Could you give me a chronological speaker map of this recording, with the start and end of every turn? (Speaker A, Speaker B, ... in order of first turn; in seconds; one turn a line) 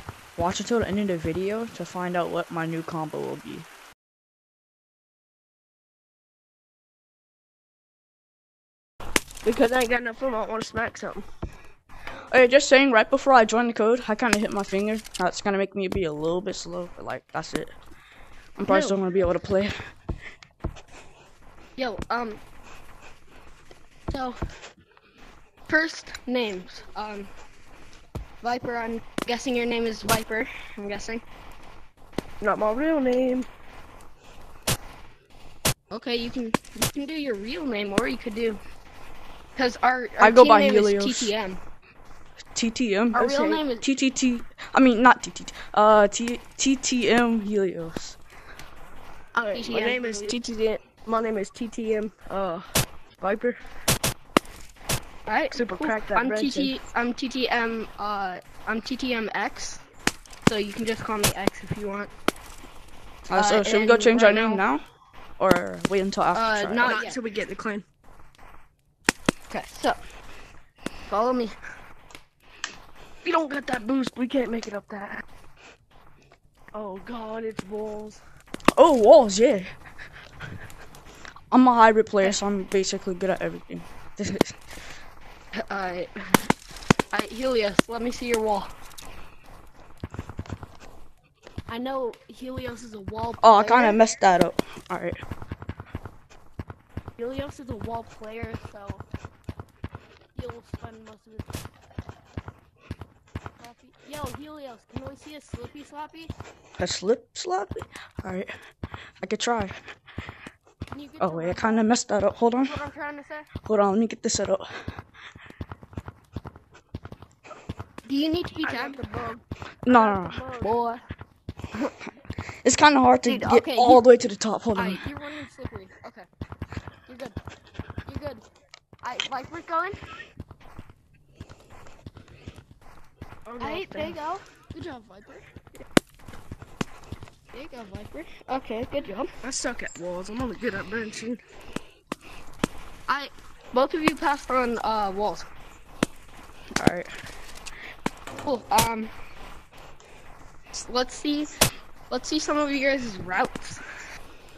Speaker A: 0.3-3.6
Speaker B: 9.4-11.2
Speaker A: 12.3-17.8
Speaker A: 18.6-19.7
Speaker B: 18.7-19.0
Speaker C: 21.8-22.4
Speaker C: 24.1-24.4
Speaker C: 25.7-27.3
Speaker C: 28.4-31.2
Speaker B: 32.4-33.5
Speaker C: 35.9-38.6
Speaker C: 39.5-41.6
Speaker A: 40.2-41.3
Speaker A: 42.5-48.2
Speaker C: 43.1-43.9
Speaker B: 43.2-43.6
Speaker B: 49.3-52.6
Speaker C: 49.5-50.3
Speaker B: 53.2-53.6
Speaker C: 55.2-59.8
Speaker B: 55.5-56.7
Speaker C: 60.5-62.1
Speaker A: 63.3-64.8
Speaker C: 63.3-64.6
Speaker A: 65.4-67.0
Speaker C: 66.3-67.2
Speaker B: 66.8-67.8
Speaker C: 69.5-70.0
Speaker C: 71.1-71.5
Speaker B: 73.2-75.2
Speaker B: 76.7-78.2
Speaker A: 78.7-79.7
Speaker A: 81.5-84.6
Speaker C: 85.7-86.1
Speaker C: 87.1-88.7
Speaker C: 91.7-94.1
Speaker A: 93.4-95.2
Speaker C: 97.2-99.0
Speaker C: 100.3-101.6
Speaker C: 103.6-106.3
Speaker A: 106.8-108.5
Speaker A: 109.2-109.7
Speaker C: 110.9-112.0
Speaker A: 111.2-112.7
Speaker C: 112.6-113.5
Speaker A: 113.7-114.6
Speaker C: 118.0-119.0
Speaker B: 118.6-120.7
Speaker A: 119.8-120.4
Speaker C: 119.9-121.0
Speaker A: 122.6-125.0
Speaker C: 123.2-124.0
Speaker C: 124.7-126.3
Speaker C: 127.1-127.4
Speaker C: 128.0-128.4
Speaker C: 129.0-129.9
Speaker B: 133.4-134.2
Speaker C: 133.6-135.4
Speaker C: 137.5-139.3
Speaker B: 139.4-141.4
Speaker C: 143.1-145.4
Speaker A: 146.8-147.1
Speaker C: 148.4-149.1
Speaker C: 150.7-151.5
Speaker C: 152.1-153.8